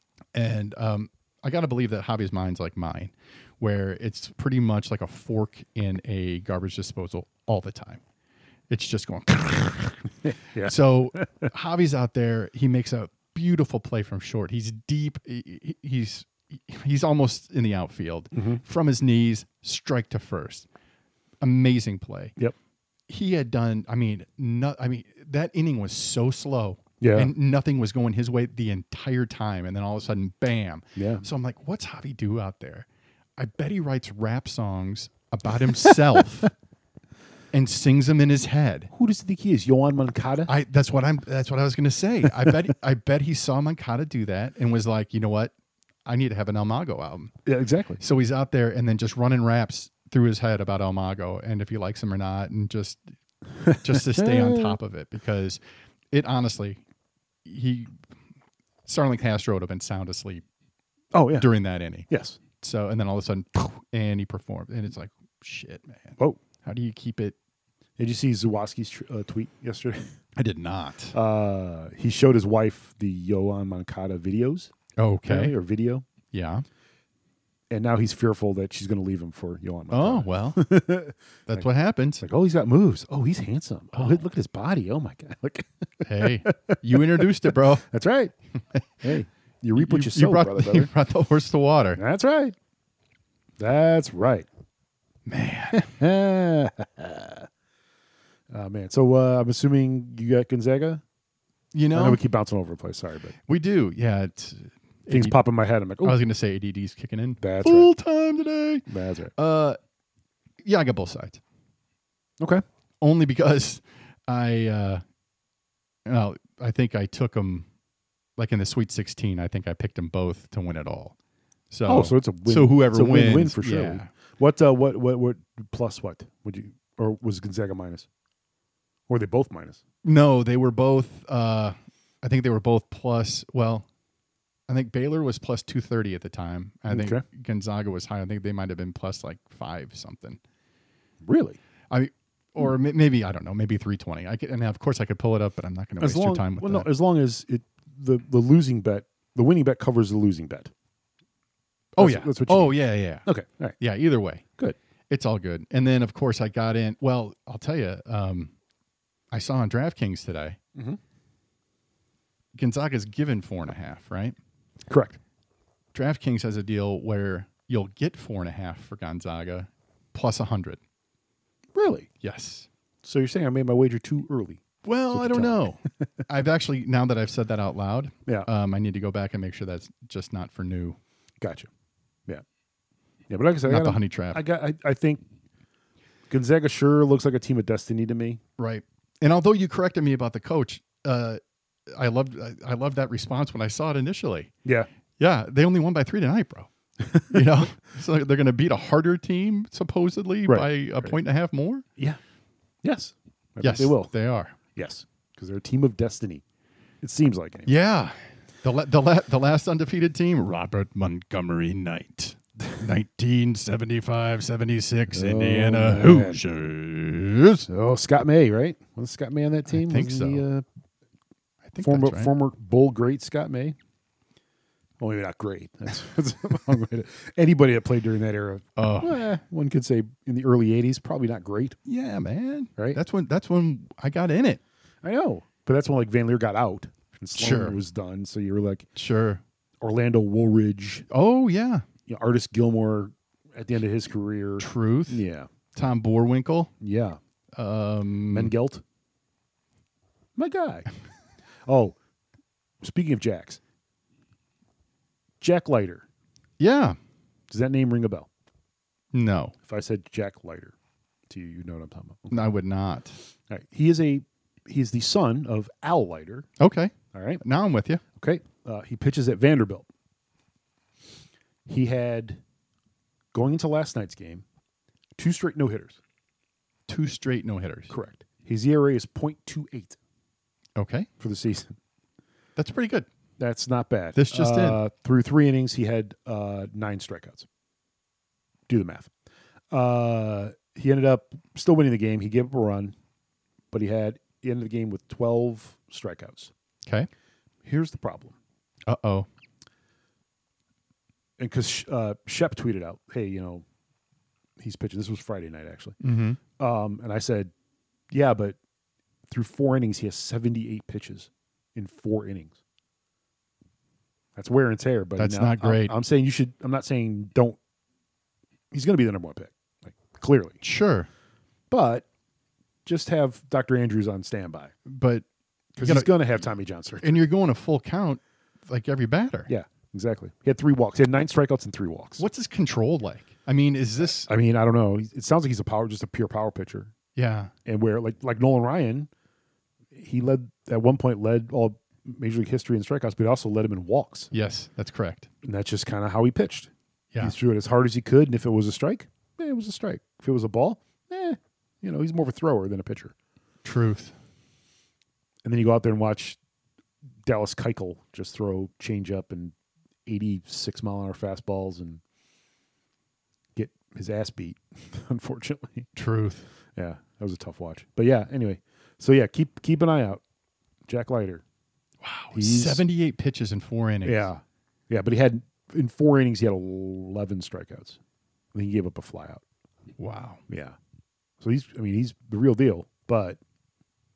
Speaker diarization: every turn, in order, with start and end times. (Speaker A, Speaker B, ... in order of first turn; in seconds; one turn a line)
Speaker A: 0.3-8.0
Speaker A: 8.7-20.7
Speaker B: 10.2-11.5
Speaker B: 18.3-18.6
Speaker A: 21.4-22.4
Speaker A: 23.1-36.5
Speaker B: 27.0-27.3
Speaker B: 31.0-31.3
Speaker A: 37.5-38.9
Speaker B: 38.9-40.5
Speaker A: 40.5-45.5
Speaker A: 46.0-47.3
Speaker B: 47.5-48.0
Speaker A: 48.0-53.1
Speaker B: 53.6-54.7
Speaker A: 53.7-56.8
Speaker A: 57.5-58.0
Speaker A: 58.9-60.4
Speaker B: 61.1-61.5
Speaker A: 61.4-62.1
Speaker B: 62.1-62.4
Speaker A: 62.6-67.3
Speaker B: 68.0-70.1
Speaker A: 70.4-71.2
Speaker B: 71.1-74.7
Speaker A: 75.0-75.6
Speaker B: 75.2-76.0
Speaker A: 76.3-76.7
Speaker B: 77.7-81.7
Speaker A: 79.9-80.7
Speaker A: 81.5-82.2
Speaker B: 82.2-88.3
Speaker A: 83.9-84.2
Speaker A: 86.0-87.9
Speaker A: 88.8-89.1
Speaker B: 89.0-90.9
Speaker A: 89.8-92.0
Speaker B: 92.0-92.6
Speaker B: 93.6-94.5
Speaker A: 95.3-95.9
Speaker B: 95.7-97.5
Speaker B: 98.5-101.0
Speaker A: 101.7-102.2
Speaker B: 101.9-103.3
Speaker A: 103.5-105.4
Speaker B: 105.1-106.2
Speaker A: 106.0-109.8
Speaker B: 107.4-107.9
Speaker B: 108.9-109.3
Speaker A: 110.6-111.4
Speaker A: 113.0-115.0
Speaker A: 116.1-117.7
Speaker A: 118.4-121.2
Speaker A: 121.7-124.1
Speaker B: 121.9-128.1
Speaker B: 129.1-129.8
Speaker A: 130.0-133.9
Speaker A: 134.7-140.4
Speaker B: 136.9-137.2
Speaker B: 141.2-141.6
Speaker A: 141.9-146.9
Speaker B: 146.0-150.7
Speaker A: 152.0-153.3
Speaker B: 152.0-153.8
Speaker A: 153.8-154.4
Speaker A: 155.1-158.5
Speaker A: 159.3-160.6
Speaker A: 162.6-164.4
Speaker B: 164.9-165.2
Speaker A: 165.9-170.8
Speaker B: 171.8-172.1
Speaker A: 172.2-172.7
Speaker B: 173.0-176.1
Speaker A: 174.8-181.0
Speaker B: 181.4-181.7
Speaker B: 183.3-185.2
Speaker A: 183.7-184.4
Speaker B: 186.3-188.4
Speaker A: 188.6-194.5
Speaker A: 195.2-196.7
Speaker B: 197.0-197.4
Speaker A: 197.3-201.8
Speaker B: 200.5-201.1
Speaker B: 202.8-204.1
Speaker A: 203.6-204.6
Speaker B: 204.7-206.4
Speaker B: 207.0-207.8
Speaker A: 207.7-217.7
Speaker B: 215.1-216.4
Speaker B: 217.7-220.7
Speaker A: 219.7-220.4
Speaker A: 221.7-222.3
Speaker B: 221.8-223.8
Speaker B: 225.0-231.8
Speaker A: 228.8-229.2
Speaker A: 231.9-234.6
Speaker B: 235.0-238.9
Speaker A: 237.4-237.8
Speaker A: 239.0-239.4
Speaker B: 239.8-241.1
Speaker A: 241.1-241.8
Speaker B: 242.1-245.5
Speaker A: 244.6-245.2
Speaker A: 245.7-246.7
Speaker B: 246.8-247.2
Speaker A: 247.6-248.5
Speaker B: 248.3-248.8
Speaker B: 250.4-250.9
Speaker B: 251.7-252.0
Speaker B: 252.8-253.6
Speaker B: 255.4-256.1
Speaker A: 256.6-257.0
Speaker B: 257.5-258.3
Speaker A: 259.1-259.6
Speaker B: 259.6-260.7
Speaker B: 261.3-262.5
Speaker A: 262.3-263.2
Speaker B: 263.5-266.5
Speaker A: 266.6-268.0
Speaker B: 267.1-267.4
Speaker B: 268.2-269.9
Speaker B: 271.7-272.4
Speaker B: 273.3-274.4
Speaker B: 275.2-276.0
Speaker A: 276.9-277.9
Speaker B: 277.9-280.0
Speaker A: 280.8-281.1
Speaker B: 281.2-281.8
Speaker A: 282.6-283.1
Speaker B: 283.4-287.5
Speaker A: 284.1-284.8
Speaker B: 288.7-289.1
Speaker B: 289.7-292.9
Speaker B: 293.7-296.5
Speaker A: 296.8-297.1
Speaker B: 297.6-298.4
Speaker A: 298.9-299.3
Speaker B: 301.4-303.6
Speaker B: 304.6-307.5
Speaker A: 306.0-306.4
Speaker B: 308.1-308.6
Speaker B: 309.3-312.6
Speaker B: 314.4-317.6
Speaker A: 315.2-315.9
Speaker B: 318.7-320.6
Speaker A: 320.6-321.1
Speaker B: 321.7-322.1
Speaker B: 322.9-324.8
Speaker A: 324.9-325.2
Speaker B: 325.8-327.2
Speaker A: 325.8-326.4
Speaker A: 327.0-329.5
Speaker B: 329.5-332.3
Speaker A: 332.2-334.3
Speaker B: 334.3-336.9
Speaker A: 337.2-337.5
Speaker B: 337.6-339.1
Speaker B: 339.9-344.3
Speaker A: 344.3-345.3
Speaker B: 345.4-353.1
Speaker A: 353.6-354.1
Speaker B: 355.4-356.4
Speaker B: 357.2-359.5
Speaker B: 360.1-362.0
Speaker B: 363.6-365.9
Speaker A: 365.9-366.5
Speaker B: 366.8-370.2
Speaker B: 370.9-371.4
Speaker A: 372.0-374.3
Speaker B: 372.3-372.8
Speaker B: 374.0-378.0
Speaker B: 378.5-379.4
Speaker A: 380.0-380.4
Speaker B: 380.5-380.8
Speaker B: 381.4-383.4